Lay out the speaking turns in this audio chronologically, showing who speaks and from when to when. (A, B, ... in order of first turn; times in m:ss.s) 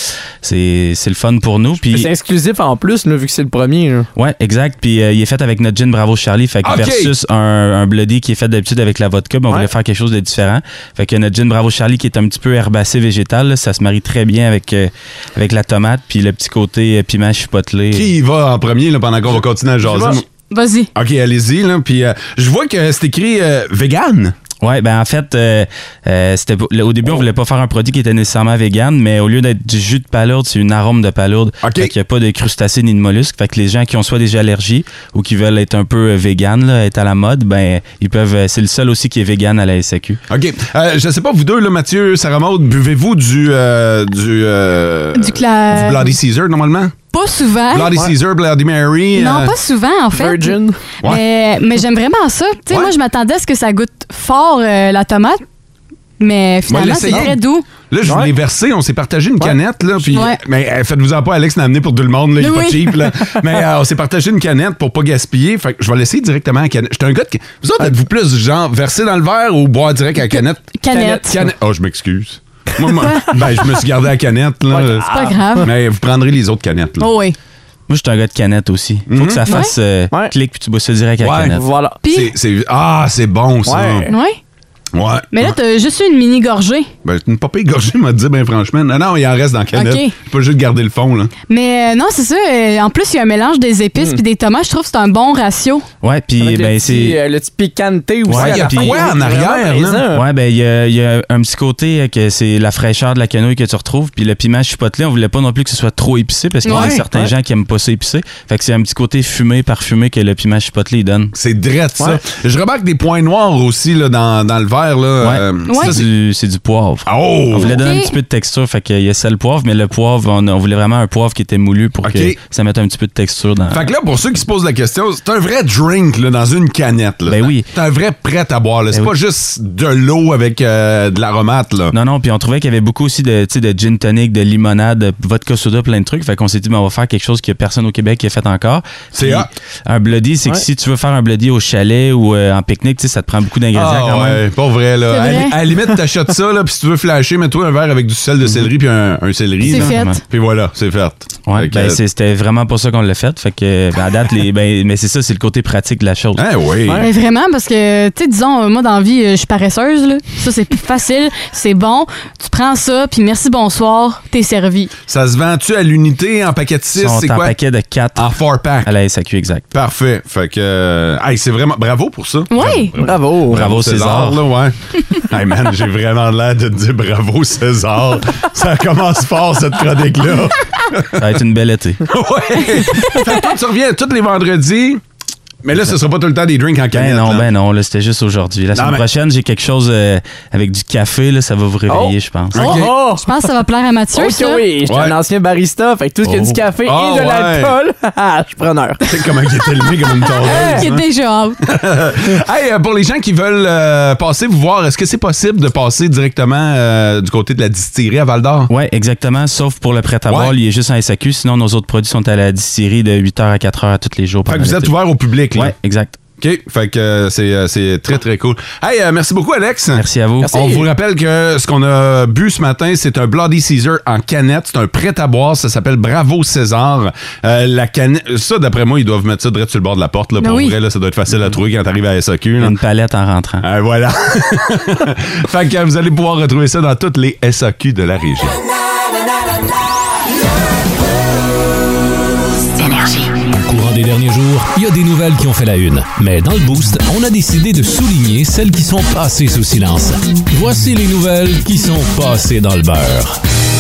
0:00.4-0:02.1 A
0:01.8-0:04.1 B
0:04.2-0:18.1 A
0:06.6-0:07.1 C
0:17.9-0:20.2 C
0:19.9-0:20.2 B
0:20.5-0:20.9 D
0:20.9-0:24.3 C
0:24.6-0:40.2 A
0:31.6-0:31.9 C
0:40.3-0:46.9 C
0:45.1-0:46.1 D
0:47.1-0:47.9 D
0:47.7-0:49.6 C
0:49.1-0:55.4 D
0:50.1-0:50.8 B
0:56.2-0:57.6 D
0:56.7-0:57.4 C
0:57.9-1:15.0 C
0:58.0-0:58.3 B
1:00.1-1:00.4 D
1:02.4-1:03.1 D
1:10.3-1:11.4 D
1:10.9-1:11.4 B
1:14.7-1:15.6 B
1:15.1-1:15.7 D
1:15.6-1:17.1 C
1:17.0-1:17.4 D
1:17.9-1:21.6 A
1:19.1-1:19.6 C
1:19.4-1:19.7 D
1:21.2-1:24.1 C
1:21.3-1:22.0 B
1:22.0-1:22.3 D
1:23.6-1:24.1 B
1:24.1-1:24.4 D
1:24.9-1:25.6 C
1:25.3-1:26.9 D
1:27.0-1:31.3 C
1:29.7-1:30.1 D
1:31.5-1:35.8 D
1:36.0-1:37.2 A
1:36.4-1:40.3 B
1:38.3-1:39.1 A
1:38.3-1:40.1 C
1:40.1-1:51.3 A
1:46.6-1:47.0 D
1:46.6-1:47.0 C
1:51.3-1:56.1 C
1:55.2-2:03.9 A
1:55.7-1:55.9 D
1:57.1-1:57.9 C
1:57.6-1:58.1 D
2:02.0-2:02.4 C
2:03.7-2:11.9 C
2:07.3-2:07.7 A
2:11.9-2:24.4 A
2:19.1-2:19.5 C
2:23.7-2:32.0 C
2:25.1-2:25.6 D
2:29.6-2:30.2 A
2:29.6-2:30.2 D
2:31.5-2:36.4 A
2:36.3-2:37.0 C
2:36.9-2:44.9 D
2:45.1-2:47.6 C
2:46.9-2:48.3 A
2:48.2-2:48.9 C
2:48.8-2:49.6 A
2:49.7-3:01.4 C
2:52.5-2:52.9 D
2:53.0-2:53.7 B
2:53.5-2:54.4 A
3:01.2-3:02.0 A
3:02.0-3:05.0 C
3:05.6-3:07.5 C
3:06.9-3:12.6 A
3:08.7-3:09.0 C
3:11.9-3:12.2 B
3:12.5-3:12.9 C
3:12.6-3:14.7 D
3:12.7-3:13.3 B
3:14.1-3:19.0 B
3:14.9-3:15.1 C
3:16.2-3:17.7 C
3:19.1-3:21.0 C
3:20.4-3:21.6 D
3:20.4-3:20.8 B
3:21.6-3:28.7 C
3:28.7-3:35.0 A
3:30.3-3:30.6 C
3:34.4-3:35.7 C
3:35.5-3:36.2 A
3:36.4-3:52.8 C
3:40.0-3:40.5 A
3:40.4-3:40.9 B
3:50.4-3:50.7 D
3:52.6-3:53.6 A
3:53.6-3:58.6 C
4:03.4-4:13.4 E